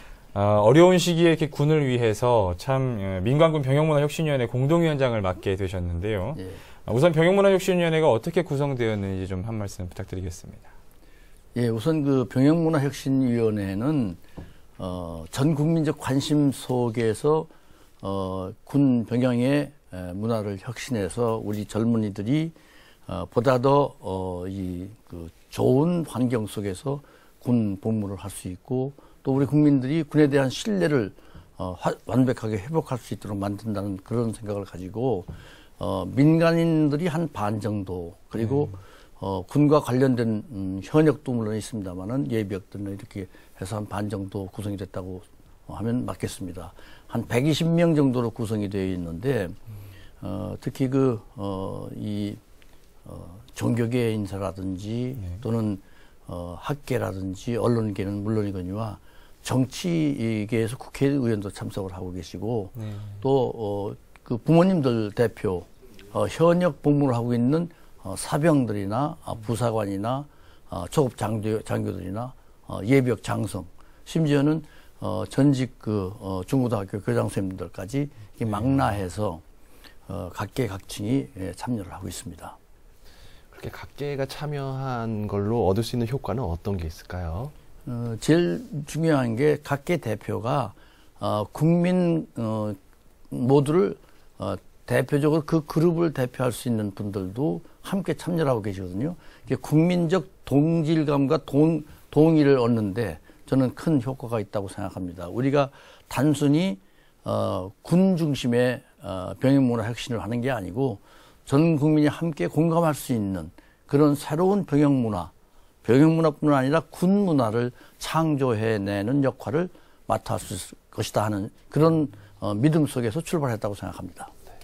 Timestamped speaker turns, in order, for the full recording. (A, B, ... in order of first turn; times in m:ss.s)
0:00.3-0:10.7 A
0:06.4-0:06.6 B
0:11.5-0:14.2 B
0:14.8-0:17.5 B
0:18.0-0:22.5 B
0:23.1-0:49.6 B
0:50.2-0:52.4 B
0:53.0-1:19.4 B
0:55.2-0:55.4 A
1:02.8-1:03.2 A
1:20.1-1:22.6 B
1:23.5-1:27.5 C
1:27.8-1:32.8 B
1:33.3-1:55.3 B
1:55.8-2:04.3 B